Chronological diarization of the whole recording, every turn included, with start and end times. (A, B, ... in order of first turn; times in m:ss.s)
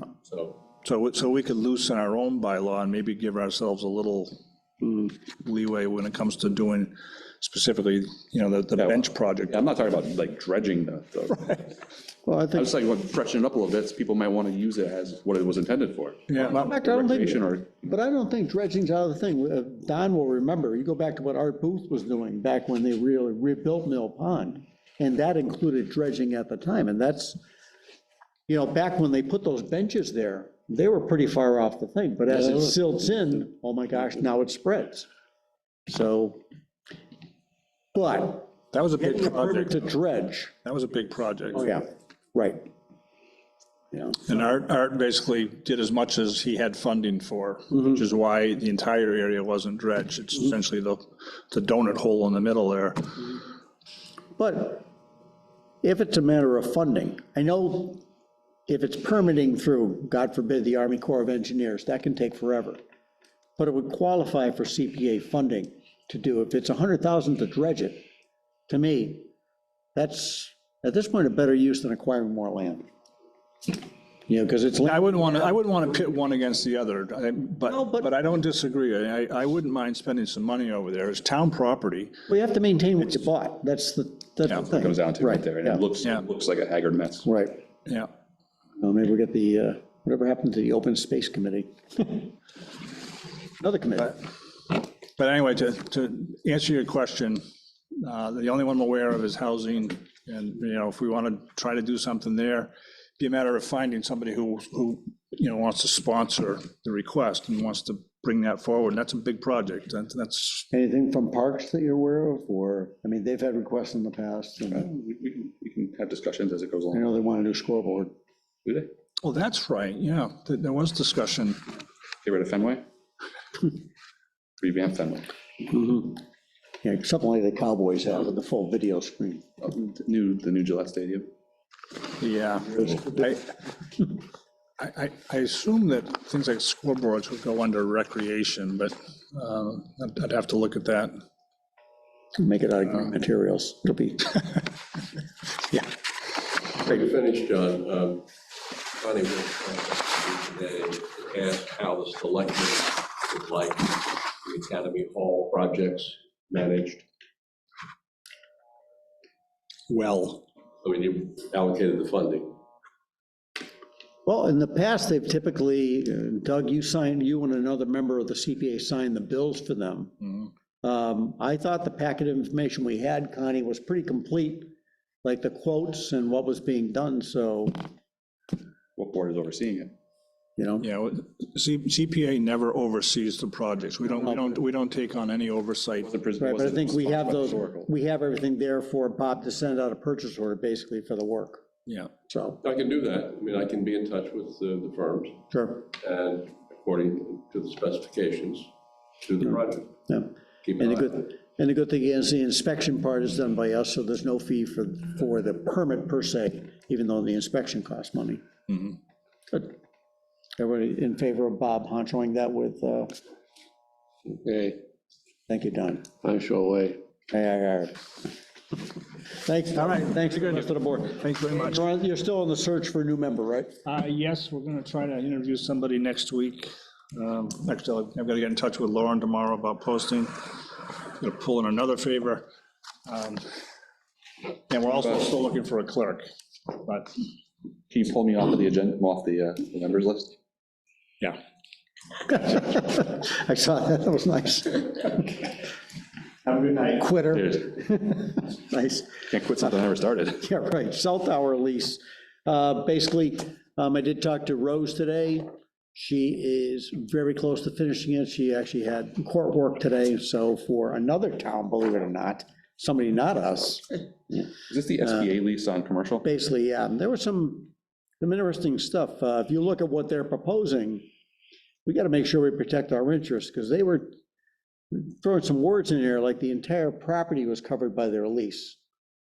0:00.2-0:00.6 A
0:00.8-0:04.4 B
0:05.4-0:09.6 B
0:08.8-0:11.7 C
0:12.2-0:12.7 D
0:12.5-0:17.7 C
0:16.3-0:16.6 B
0:16.4-0:27.4 D
0:28.5-0:35.1 D
0:35.9-0:36.4 D
0:37.9-0:40.5 D
0:38.7-0:39.8 B
0:40.6-0:41.7 B
0:41.5-0:42.7 D
0:43.9-0:44.2 D
0:44.3-0:53.2 B
0:54.4-0:54.9 D
0:55.8-0:58.0 D
0:58.7-1:02.8 D
1:03.6-1:08.0 D
1:08.7-1:09.3 D
1:09.9-1:12.8 D
1:14.3-1:15.5 D
1:14.8-1:22.2 B
1:17.7-1:18.1 D
1:22.3-1:25.8 D
1:24.6-1:27.3 C
1:27.2-1:27.6 D
1:28.8-1:32.3 D
1:33.6-1:34.2 D
1:35.2-1:50.7 B
1:50.7-1:54.9 D
1:54.7-1:57.0 C
1:56.9-1:58.1 D
1:58.6-1:58.9 C
1:59.2-2:01.6 B
2:02.2-2:02.8 C
2:04.6-2:05.3 C
2:05.7-2:06.2 D
2:06.8-2:09.4 D
2:09.6-2:11.3 C
2:12.2-2:13.5 B
2:14.8-2:21.2 B
2:22.4-2:24.5 D
2:26.8-2:28.2 A
2:29.0-2:37.0 A
2:39.9-2:40.4 B
2:40.8-2:42.5 A
2:44.2-2:50.1 D
2:50.2-2:50.5 B
2:50.8-2:54.7 D
2:55.2-2:57.8 D
2:59.0-2:59.9 C
3:00.6-3:00.9 D
3:00.8-3:06.1 B
3:04.2-3:04.5 D
3:06.0-3:07.9 C
3:06.4-3:11.6 D
3:11.8-3:12.1 B
3:12.3-3:12.6 D
3:12.6-3:15.4 A
3:15.5-3:15.9 D
3:15.9-3:18.7 A
3:19.2-3:19.9 A
3:20.1-3:28.4 D
3:20.6-3:21.2 A
3:29.5-3:29.8 D
3:30.6-3:33.1 D
3:34.3-3:34.8 A
3:35.5-3:36.1 D
3:36.2-3:37.0 A
3:37.3-3:38.0 D
3:39.3-3:43.7 D
3:39.8-3:41.8 B
3:43.8-3:50.4 B
3:51.2-3:52.5 B
3:53.0-3:53.4 B
3:54.7-3:57.2 B
3:57.9-4:00.3 C
4:02.2-4:05.6 D
4:06.4-4:09.3 D
4:09.3-4:10.4 C
4:10.4-4:24.5 D
4:24.7-4:26.2 C
4:26.2-4:31.0 D
4:31.8-4:34.1 D
4:34.9-4:38.8 D